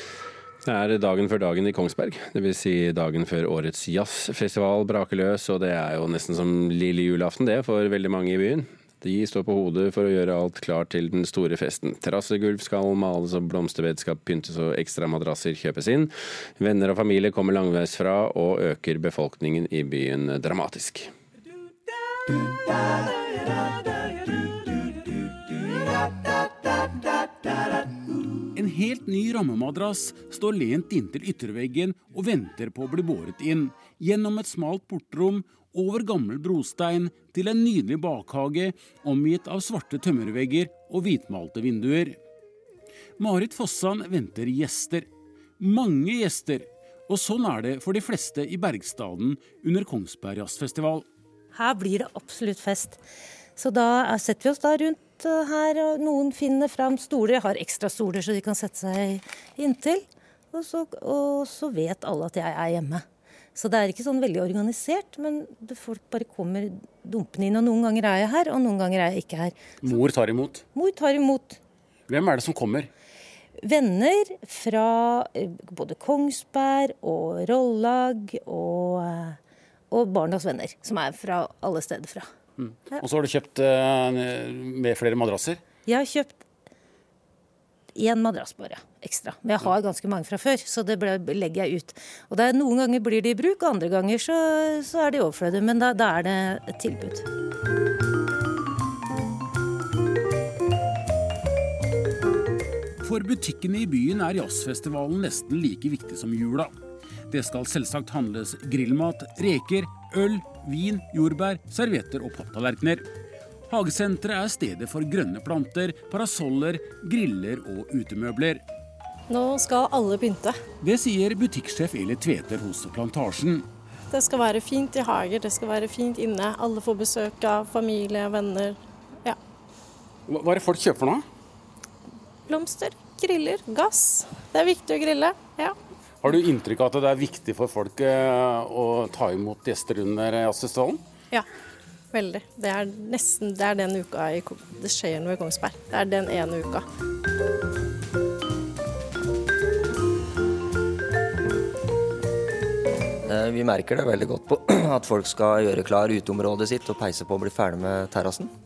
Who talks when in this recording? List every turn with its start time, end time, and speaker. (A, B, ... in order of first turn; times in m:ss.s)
0:00.6-0:21.1 A
0:28.6-0:42.2 B
0:43.2-0:45.1 B
0:45.6-0:51.1 B
0:51.5-0:53.0 C
0:53.6-1:03.0 C
1:03.6-1:09.5 C
1:09.8-1:10.6 B
1:10.7-1:11.6 C
1:12.1-1:12.9 B
1:13.6-1:19.4 C
1:19.9-1:22.3 C
1:22.6-1:25.6 B
1:25.9-1:26.4 C
1:28.0-1:37.2 C
1:43.0-1:46.7 B
1:47.3-1:53.0 B
1:53.7-1:58.6 B
1:59.3-2:00.6 D
2:00.8-2:03.7 B
2:04.1-2:09.4 D
2:10.3-2:11.2 B
2:12.5-2:15.8 D
2:16.2-2:21.0 B
2:22.1-2:26.8 D
2:33.3-2:38.5 E